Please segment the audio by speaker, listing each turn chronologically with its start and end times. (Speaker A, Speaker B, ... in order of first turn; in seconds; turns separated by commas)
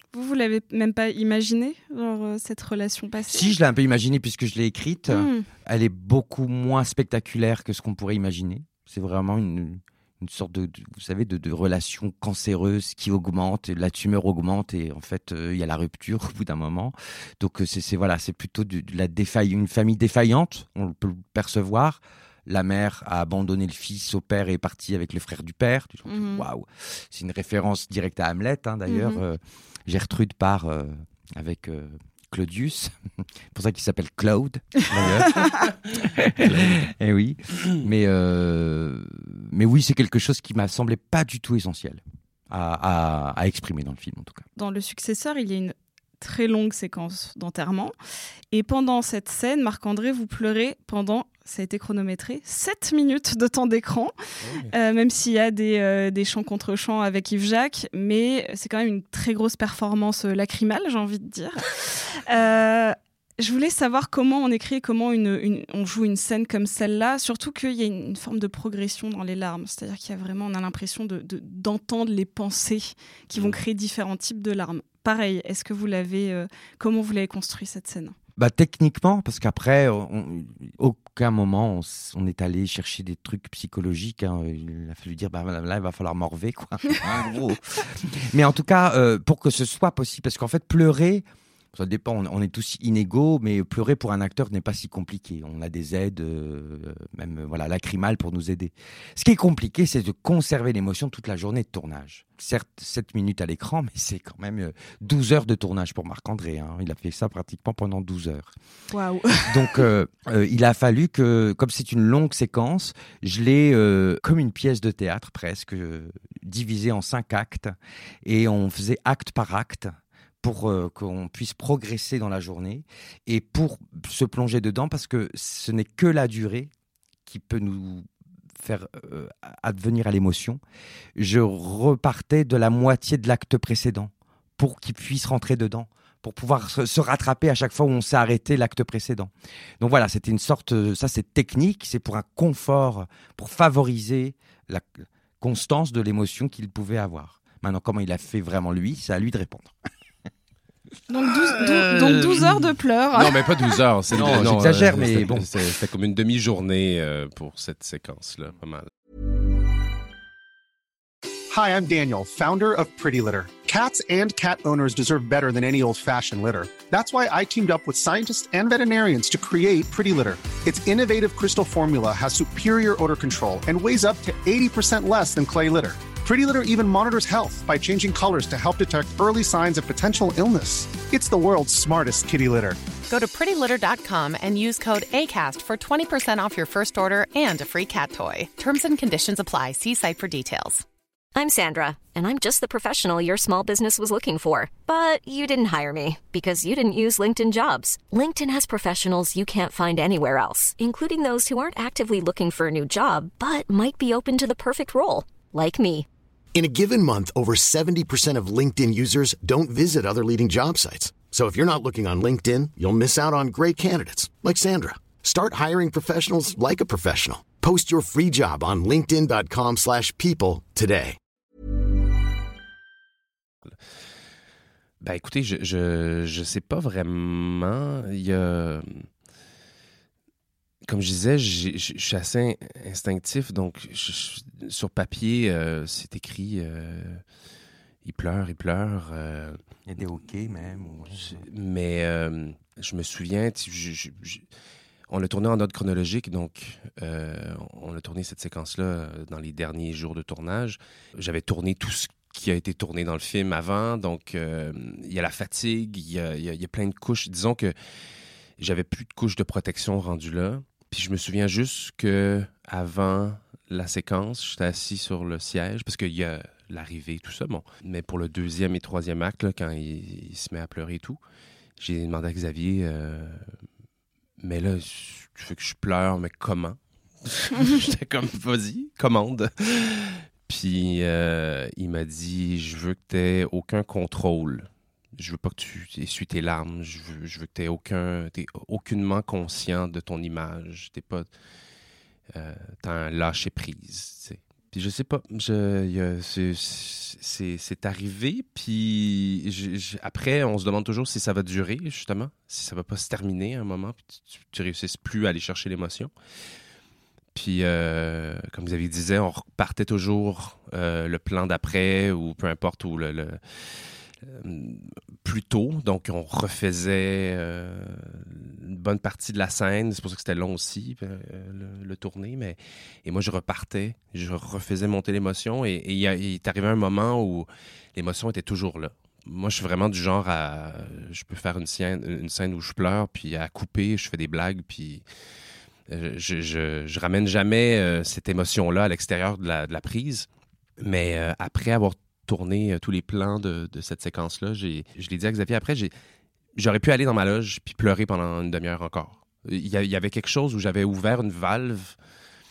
Speaker A: 0.1-3.5, Speaker B: 3.3-32.9, Speaker A: 5.1-5.5, Speaker A: 26.1-26.4, Speaker A: 28.9-29.2, Speaker B: 33.5-44.4, Speaker C: 34.9-35.7, Speaker C: 36.4-36.9, Speaker A: 44.5-47.9, Speaker A: 48.5-54.1, Speaker C: 54.4-54.7, Speaker A: 54.7-78.1, Speaker B: 78.4-108.5, Speaker A: 108.9-109.9, Speaker B: 109.5-126.7, Speaker B: 127.2-128.1, Speaker B: 128.6-130.6, Speaker B: 131.2-149.7, Speaker A: 151.1-153.8, Speaker C: 151.6-158.9, Speaker B: 154.1-155.7, Speaker D: 161.5-182.8, Speaker E: 183.1-190.8, Speaker F: 191.3-206.1, Speaker G: 206.5-221.2, Speaker C: 225.0-229.1, Speaker C: 230.8-237.2, Speaker C: 238.0-239.6, Speaker B: 239.8-241.4, Speaker C: 241.2-244.4, Speaker C: 245.1-257.7, Speaker C: 258.6-271.2, Speaker C: 271.8-273.5, Speaker C: 274.4-291.3, Speaker C: 292.3-306.1, Speaker C: 307.3-335.0, Speaker C: 335.9-340.3, Speaker C: 340.8-345.9, Speaker C: 346.6-351.9